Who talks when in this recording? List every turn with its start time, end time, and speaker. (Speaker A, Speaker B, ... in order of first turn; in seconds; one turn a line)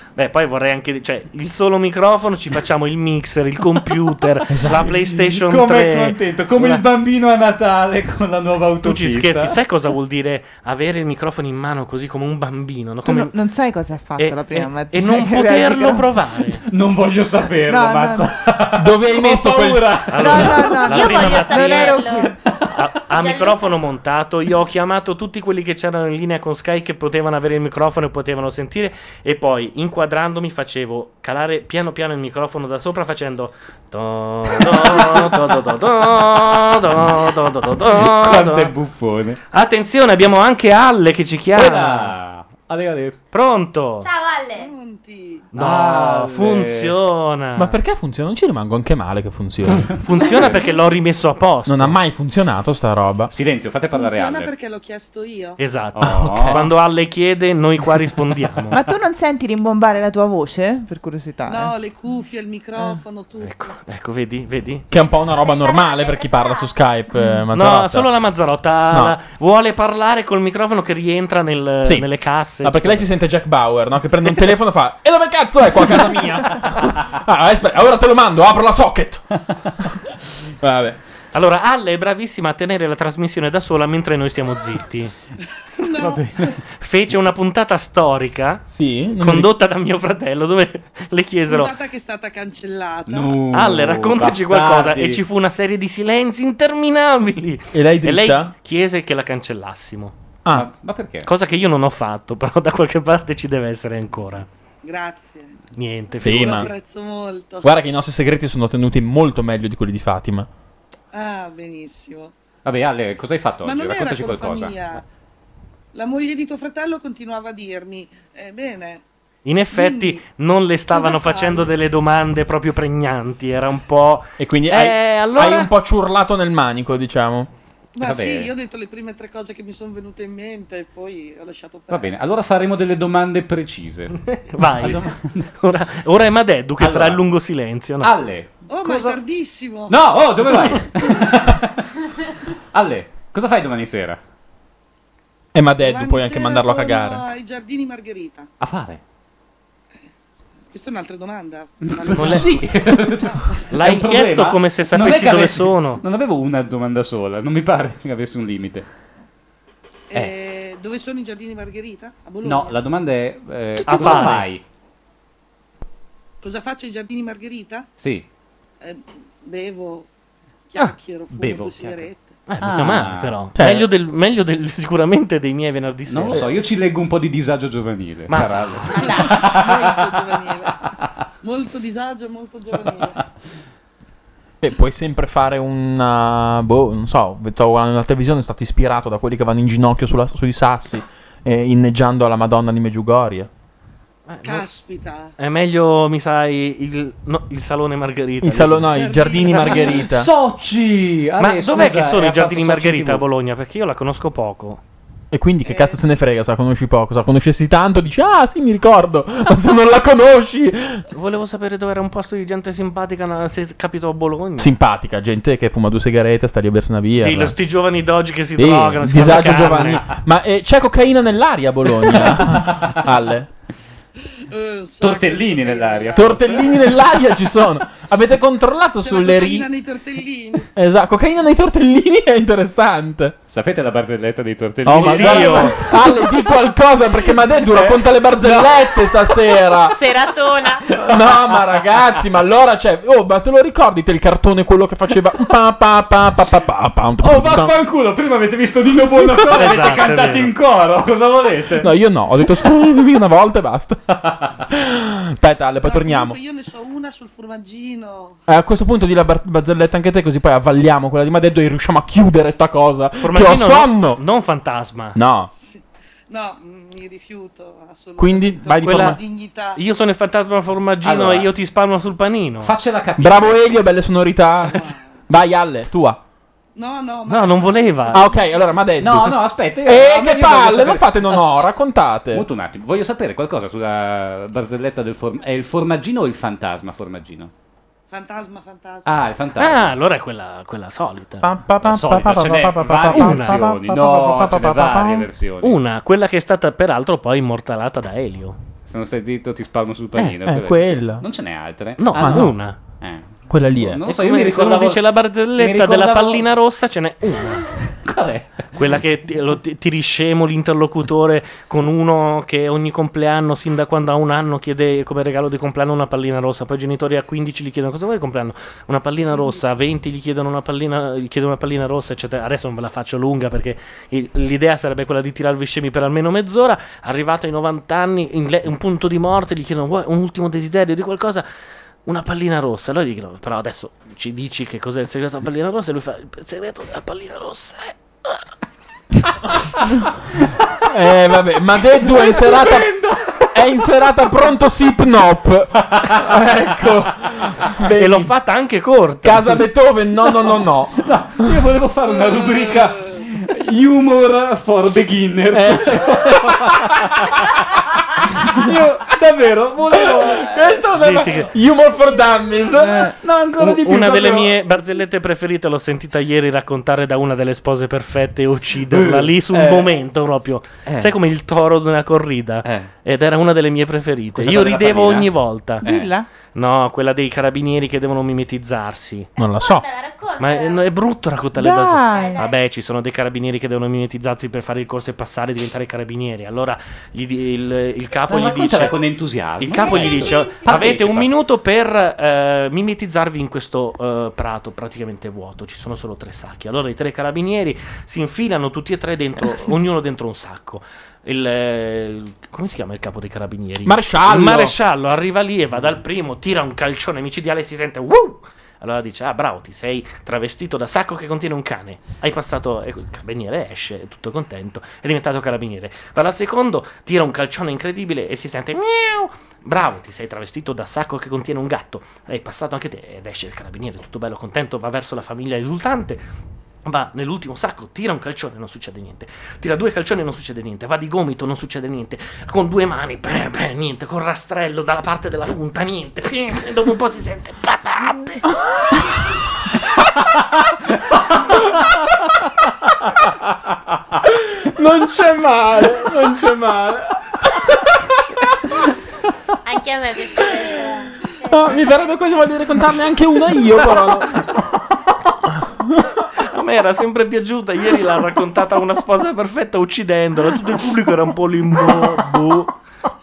Speaker A: 0.1-6.8
Speaker B: 4.5-5.1
Speaker C: 4.7-9.6
Speaker A: 8.8-13.3
Speaker D: 13.0-16.1
Speaker A: 14.2-16.6
Speaker C: 16.7-20.9
Speaker D: 17.6-18.3
Speaker B: 18.8-20.0
Speaker A: 20.1-38.7
Speaker D: 20.1-22.3
Speaker E: 20.9-22.3
Speaker E: 23.1-23.8
Speaker C: 34.5-35.4
Speaker C: 36.9-39.4
Speaker A: 39.5-42.1
Speaker C: 41.5-43.1
Speaker A: 43.3-44.1
Speaker E: 44.0-44.7
Speaker F: 44.5-45.5
Speaker A: 45.5-47.8
Speaker C: 45.5-47.0
Speaker B: 47.6-49.9
Speaker A: 50.0-52.0
Speaker B: 51.6-53.3
Speaker C: 53.3-54.5
Speaker F: 53.9-55.6
Speaker A: 55.6-58.8
Speaker C: 55.9-56.7
Speaker B: 56.0-56.7
Speaker D: 58.7-61.8
Speaker F: 61.5-63.7
Speaker A: 63.4-64.9
Speaker B: 64.9-68.1
Speaker E: 65.6-66.7
Speaker A: 67.5-73.0
Speaker B: 72.6-79.2
Speaker B: 80.6-81.0
Speaker A: 81.3-85.1
Speaker F: 85.8-86.2
Speaker A: 86.0-88.6
Speaker B: 88.7-89.5
Speaker A: 89.2-91.8
Speaker F: 91.5-93.3
Speaker C: 93.1-95.2
Speaker A: 93.5-100.1
Speaker B: 97.7-98.5
Speaker C: 100.5-101.3
Speaker A: 101.2-104.5
Speaker F: 104.8-105.6
Speaker A: 105.8-106.7
Speaker B: 106.2-106.7
Speaker F: 106.4-107.7
Speaker B: 107.6-110.5
Speaker F: 111.1-112.3
Speaker C: 112.6-114.7
Speaker F: 113.6-115.0
Speaker F: 115.9-119.0
Speaker A: 119.4-125.7
Speaker F: 119.7-120.2
Speaker F: 120.9-121.7
Speaker B: 124.4-127.5
Speaker F: 128.0-132.0
Speaker C: 128.0-128.5
Speaker C: 131.9-135.4
Speaker A: 134.3-138.2
Speaker C: 136.8-137.2
Speaker C: 138.0-139.2
Speaker F: 138.7-139.9
Speaker C: 139.9-141.8
Speaker C: 142.7-144.2
Speaker B: 145.5-147.2
Speaker F: 145.8-148.5
Speaker C: 148.6-149.0
Speaker F: 150.7-152.6
Speaker C: 151.8-158.8
Speaker A: 152.1-152.7
Speaker F: 153.2-153.5
Speaker A: 153.7-156.0
Speaker F: 160.1-162.7
Speaker C: 162.4-164.6
Speaker A: 163.8-164.5
Speaker F: 166.4-167.9
Speaker C: 168.0-168.2
Speaker F: 168.8-170.1
Speaker F: 170.7-172.3
Speaker C: 171.4-172.0
Speaker A: 172.5-176.5
Speaker C: 172.6-173.4
Speaker B: 173.5-173.9
Speaker C: 176.1-179.9
Speaker A: 178.3-179.3
Speaker F: 178.9-180.7
Speaker F: 181.4-183.1
Speaker C: 182.9-183.3
Speaker B: 184.6-193.5
Speaker A: 194.3-194.7
Speaker F: 194.4-195.3
Speaker A: 195.4-199.0
Speaker B: 198.4-200.3
Speaker F: 198.9-200.0
Speaker C: 200.0-203.2
Speaker A: 201.4-204.8
Speaker B: 205.3-211.0
Speaker F: 205.6-206.0
Speaker A: 211.1-214.7
Speaker B: 214.6-217.5
Speaker A: 217.2-220.1
Speaker B: 218.6-223.5
Speaker C: 219.3-220.0
Speaker C: 222.1-223.1
Speaker F: 224.5-226.9
Speaker C: 225.0-226.6
Speaker B: 226.1-229.7
Speaker F: 229.0-230.7
Speaker B: 230.8-233.3
Speaker C: 233.5-235.9
Speaker B: 234.8-240.0
Speaker A: 234.9-235.8
Speaker C: 237.6-238.9
Speaker E: 239.9-240.9
Speaker C: 240.9-241.5
Speaker B: 241.0-247.8
Speaker C: 247.2-251.9
Speaker B: 249.1-249.8
Speaker A: 249.5-250.5
Speaker B: 251.8-254.0
Speaker B: 254.7-256.4
Speaker F: 255.8-258.4
Speaker B: 258.5-264.2
Speaker A: 263.2-265.2
Speaker B: 265.1-265.5
Speaker F: 265.5-269.8
Speaker B: 268.2-269.2
Speaker A: 268.8-269.2
Speaker A: 269.8-272.7
Speaker C: 271.0-271.5
Speaker C: 272.6-273.7
Speaker B: 273.2-276.2
Speaker F: 274.7-275.1
Speaker F: 276.7-278.1
Speaker A: 277.3-278.3
Speaker B: 278.1-282.4
Speaker C: 279.0-281.4
Speaker C: 282.3-287.5
Speaker F: 288.1-289.1
Speaker C: 289.1-290.0
Speaker A: 289.6-291.5
Speaker B: 291.4-295.3
Speaker C: 291.8-295.8
Speaker A: 292.8-293.7
Speaker A: 295.6-298.6
Speaker C: 298.9-306.5
Speaker B: 300.4-301.2
Speaker A: 302.0-302.8
Speaker B: 302.1-302.5
Speaker B: 303.5-304.0
Speaker A: 304.0-307.6
Speaker C: 308.0-309.0
Speaker A: 308.7-331.4
Speaker A: 332.1-338.4
Speaker B: 340.9-342.9
Speaker C: 342.0-343.4
Speaker B: 343.5-348.3
Speaker C: 345.9-346.4
Speaker A: 348.0-349.6
Speaker B: 349.2-351.0
Speaker C: 351.0-357.3
Speaker B: 355.5-356.7
Speaker C: 358.4-360.8
Speaker B: 360.2-364.5
Speaker A: 360.9-361.5
Speaker C: 362.9-364.2
Speaker A: 363.6-375.8
Speaker C: 368.9-369.9
Speaker C: 370.9-371.1
Speaker C: 372.6-372.9
Speaker C: 374.3-376.0
Speaker D: 375.8-376.2
Speaker A: 376.5-379.3
Speaker B: 379.4-379.8
Speaker E: 379.6-380.9
Speaker A: 380.4-389.0
Speaker D: 381.6-382.4
Speaker E: 382.1-382.6
Speaker C: 388.3-391.3
Speaker A: 389.6-426.2
Speaker E: 389.7-390.9
Speaker B: 403.8-404.7
Speaker A: 426.9-438.4
Speaker B: 444.3-448.2
Speaker E: 449.6-452.1
Speaker B: 451.5-454.5
Speaker B: 455.5-456.0
Speaker A: 456.5-462.7